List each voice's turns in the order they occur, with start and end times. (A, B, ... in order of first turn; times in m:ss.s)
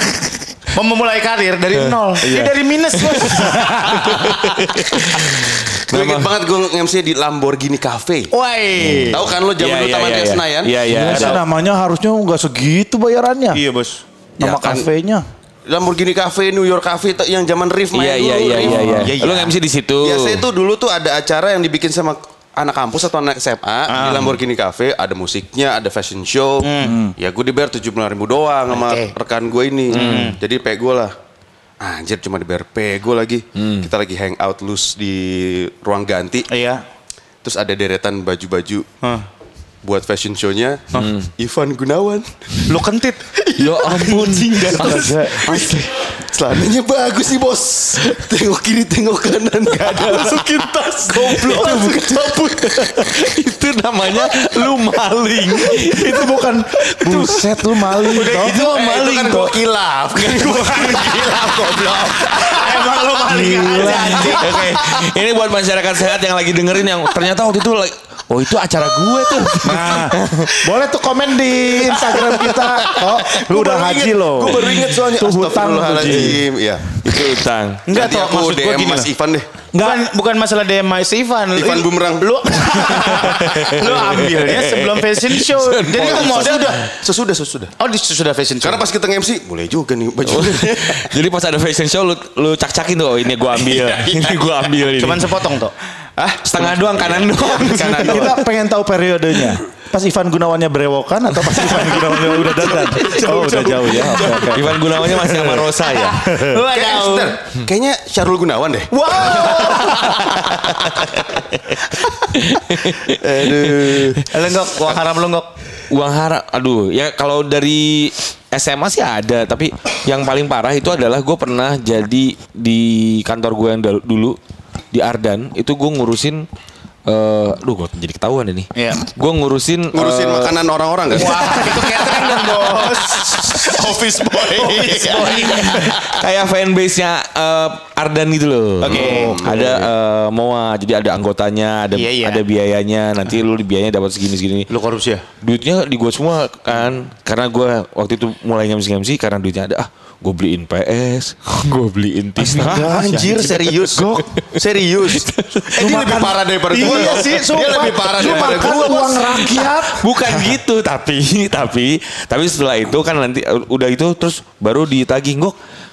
0:00.7-0:04.6 A
0:03.0-0:06.4 B
0:03.4-0:04.1 C
0:05.7-0:08.3 D
0:08.3-0:09.2 A
0:08.8-0:11.4 B
0:09.1-0:11.4 D
0:10.9-0:13.6 C
0:13.5-0:14.0 A
0:14.4-0:15.2 C
0:14.4-0:14.9 D
0:15.6-0:31.1 D
0:17.9-0:20.5 B
0:18.6-0:19.1 C
0:23.9-0:24.4 A
0:26.6-0:27.0 A
0:26.8-0:27.1 C
0:28.7-0:29.1 A
0:29.9-0:30.4 A
0:29.9-0:30.4 B
0:31.8-0:36.5 D
0:33.6-0:33.9 B
0:36.5-0:36.8 A
0:37.4-0:38.8 D
0:39.8-0:42.8 D
0:40.9-0:41.3 B
0:42.7-0:45.7 A
0:43.6-0:45.8 B
0:44.6-0:52.9 D
0:49.8-0:50.4 B
0:50.0-0:52.4 A
0:51.3-0:59.6 B
0:55.8-0:58.7 C
0:58.0-1:03.0 D
1:00.1-1:01.4 B
1:01.1-1:01.6 A
1:02.3-1:04.6 A
1:03.3-1:04.4 C
1:03.9-1:10.6 B
1:09.6-1:16.4 C
1:12.3-1:16.8 D
1:16.0-1:16.4 B
1:16.9-1:17.8 B
1:17.9-1:19.1 A
1:17.9-1:19.5 D
1:19.7-1:20.0 C
1:19.7-1:26.8 A
1:21.5-1:22.9 D
1:23.2-1:26.9 B
1:25.9-1:27.7 D
1:27.8-1:28.8 A
1:28.6-1:31.1 D
1:30.2-1:35.4 B
1:33.5-1:34.4 D
1:34.9-1:35.7 A
1:36.2-1:38.4 D
1:36.4-1:38.4 B
1:37.8-1:46.6 C
1:41.4-1:46.2 B
1:46.2-1:47.4 A
1:46.7-1:51.0 D
1:48.9-1:51.4 A
1:52.3-1:54.2 B
1:53.0-1:54.2 D
1:54.3-1:55.5 A
1:55.9-2:04.4 B
2:04.9-2:06.4 B
2:07.1-2:10.5 B
2:08.7-2:09.0 A
2:09.9-2:15.8 D
2:11.1-2:16.0 A
2:15.4-2:24.7 B
2:18.8-2:19.9 D
2:18.9-2:19.4 A
2:21.9-2:22.4 A
2:24.7-2:25.2 A
2:25.4-2:33.0 B
2:32.4-2:34.4 C
2:32.6-2:39.4 D
2:35.1-2:35.8 B
2:35.7-2:40.6 C
2:37.0-2:37.4 B
2:38.2-2:45.6 B